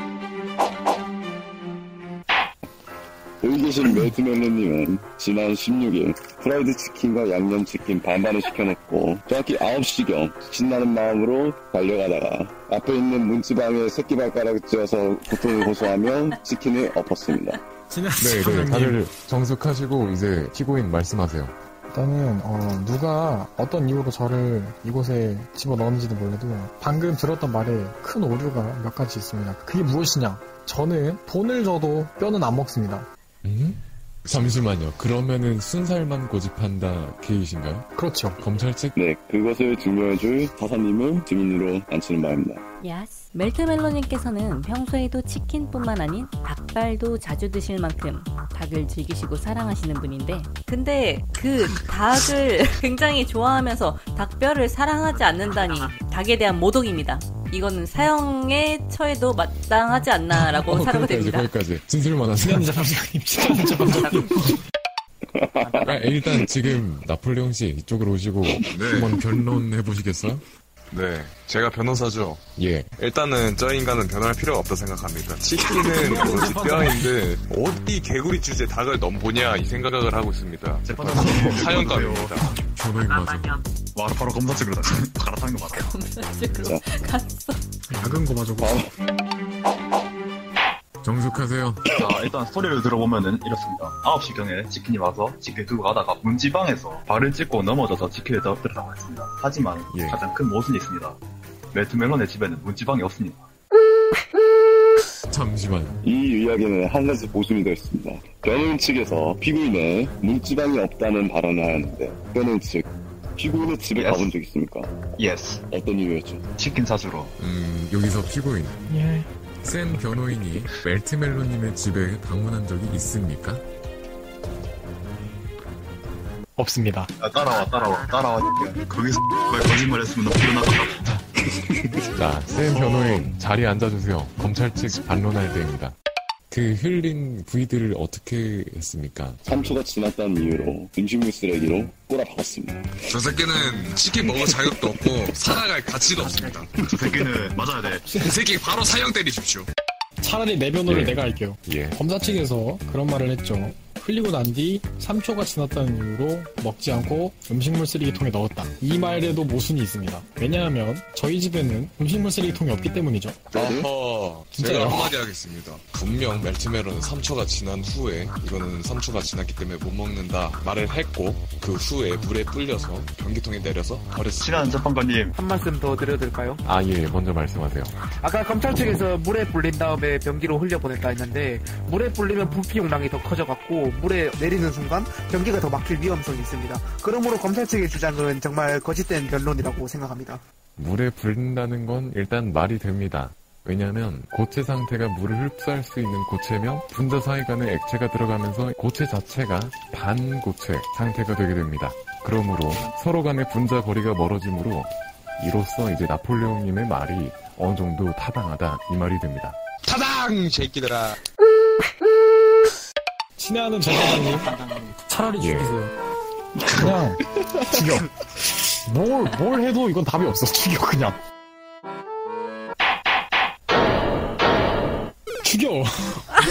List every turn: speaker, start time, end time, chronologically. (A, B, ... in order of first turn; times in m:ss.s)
0:03.4-0:17.6 A
0:17.9-0:18.8 B
0:18.2-0:21.5 C
0:18.2-0:19.0 D
0:21.9-0:33.0 B
0:33.4-0:39.0 C
0:37.9-0:38.4 B
0:39.0-0:42.6 A
0:42.8-1:01.5 D
1:00.4-1:02.8 C
1:02.4-1:04.3 B
1:03.6-1:04.1 D
1:03.8-1:04.3 C
1:05.3-1:06.5 A
1:05.8-1:10.4 C
1:08.7-1:09.2 E
1:10.9-1:12.4 E
1:12.6-1:12.9 C
1:13.0-1:22.5 E
1:15.9-1:17.0 D
1:20.8-1:22.4 F
1:22.7-1:23.6 C
1:23.9-1:25.8 F
1:25.7-1:28.0 D
1:26.6-1:26.8 A
1:28.0-1:28.7 B
1:28.6-1:28.9 A
1:31.0-1:31.8 C
1:31.9-1:41.2 F
1:39.9-1:40.2 C
1:41.7-1:43.5 F
1:45.3-1:46.0 C
1:46.0-1:55.1 A
1:53.9-1:54.3 F
1:55.2-1:55.6 F
1:55.7-1:56.5 A
1:56.6-1:57.3 F
1:57.4-1:58.8 C
1:58.9-1:59.2 B
1:59.6-2:03.6 C
2:06.6-2:07.1 B
2:07.2-2:11.8 F
2:12.2-2:15.9 C
2:16.5-2:19.4 C
2:19.4-2:22.8 A
2:23.1-2:26.8 E
2:26.8-2:28.1 F
2:28.0-2:29.7 E
2:30.2-2:43.4 B
2:30.8-2:32.0 C
2:43.5-2:43.9 A
2:43.5-2:54.8 E
2:44.6-2:45.0 B
2:54.4-2:55.3 F
2:55.4-2:56.6 G
2:56.6-2:57.9 C
2:58.1-3:10.4 G
3:10.8-3:29.6 C
3:29.9-3:31.2 E
3:33.4-3:34.5 B
3:35.1-3:35.9 B
3:35.4-3:35.8 C
3:36.8-3:37.2 B
3:37.8-3:38.0 B
3:38.8-3:41.2 B
3:45.4-3:46.2 B